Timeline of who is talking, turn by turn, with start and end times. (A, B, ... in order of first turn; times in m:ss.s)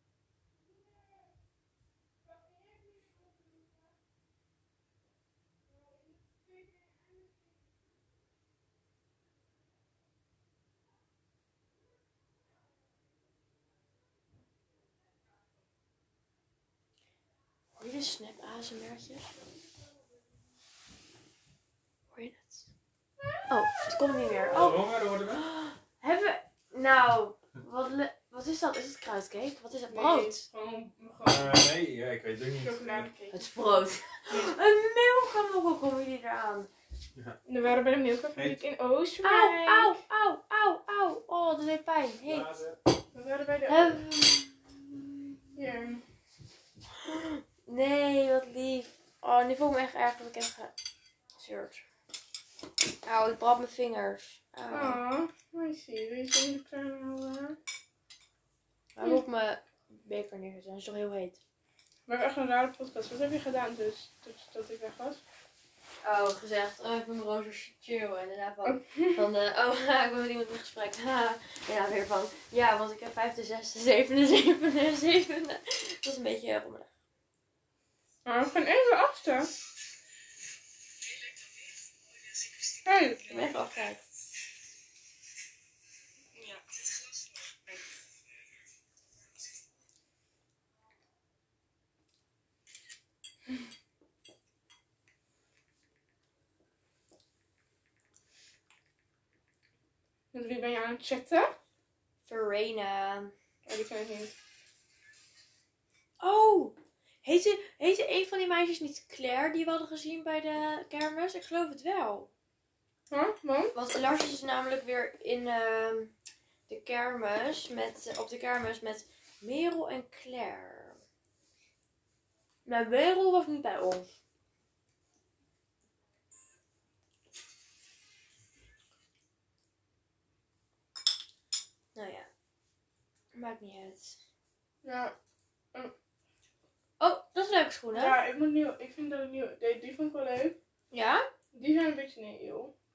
0:17.8-0:19.4 A
0:22.1-0:22.7 A
0:23.5-0:30.4 A
0:24.5-0:25.4 B
0:29.9-0:31.7 C
0:31.2-0:33.1 B
0:32.5-0:33.5 C
0:33.3-0:36.7 A
0:37.5-0:40.0 C
0:39.2-0:42.6 A
0:42.3-0:42.8 B
0:43.1-0:44.0 C
0:43.7-0:45.4 A
0:45.6-0:46.0 C
0:47.0-0:50.7 A
0:51.4-0:51.9 A
0:53.0-0:55.0 A
0:54.7-0:57.6 C
0:59.0-1:01.4 A
1:02.1-1:05.2 C
1:06.0-1:16.9 A
1:08.6-1:09.2 C
1:18.3-1:19.5 C
1:22.8-1:23.4 C
1:23.3-1:24.0 A
1:40.3-1:41.6 C
1:42.3-1:43.3 A
1:43.7-1:44.4 C
1:46.2-1:52.3 A
1:53.1-1:53.7 C
1:53.7-1:56.1 A
1:56.7-2:01.0 A
2:02.6-2:04.1 A
2:12.0-2:12.3 A
2:13.3-2:14.2 A
2:14.8-2:15.1 C
2:17.0-2:18.2 A
2:17.9-2:20.6 C
2:20.9-2:21.3 A
2:21.5-2:22.7 C